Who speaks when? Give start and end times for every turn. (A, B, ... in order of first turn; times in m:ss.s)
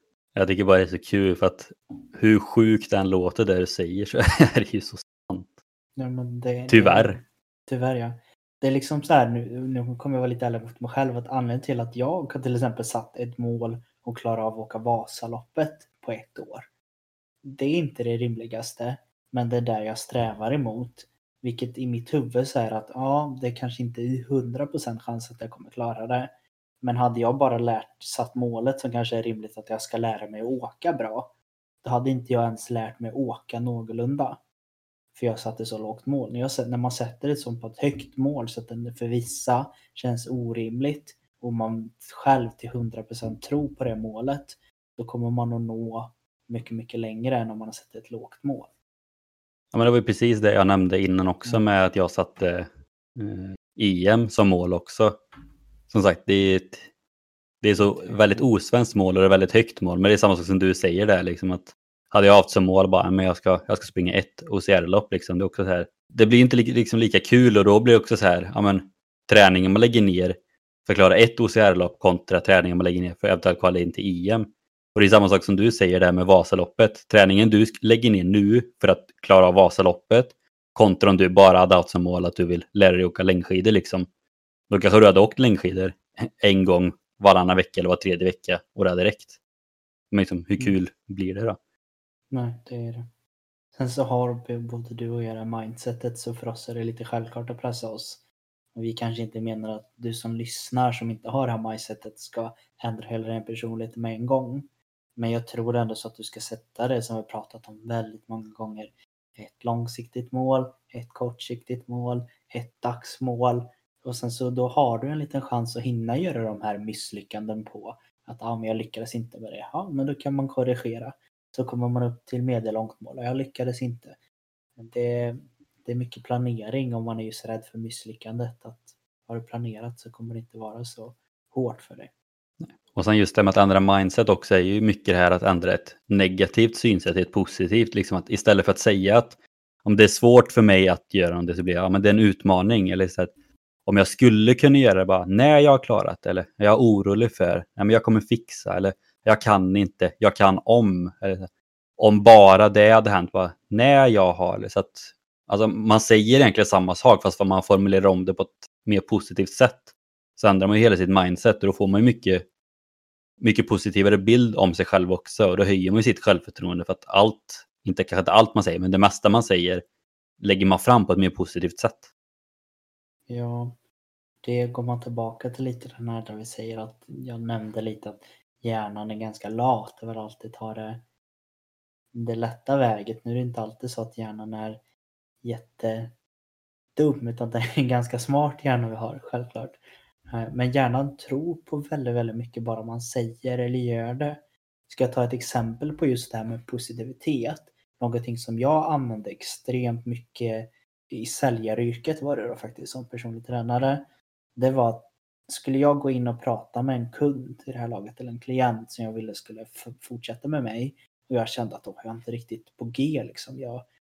0:00.4-0:05.5 A
0:06.0-0:16.7 B
0:06.7-0:07.2 A
0:17.4-0:34.4 B
0:35.1-0:48.7 B
0:49.7-0:55.2 A
0:55.9-0:56.9 A
0:57.6-1:24.1 A
0:57.7-0:58.4 B
1:24.7-1:29.4 A
1:30.1-1:31.6 A
1:32.3-1:33.0 B
1:33.7-2:04.2 B
2:04.8-2:12.1 B
2:12.6-2:23.3 A
2:23.8-2:42.4 A
2:43.4-2:49.8 A
2:50.4-2:52.1 A
2:53.3-2:53.8 B
2:54.4-3:01.0 B
3:02.1-3:04.8 B
3:05.4-3:06.2 B
3:07.0-3:33.8 B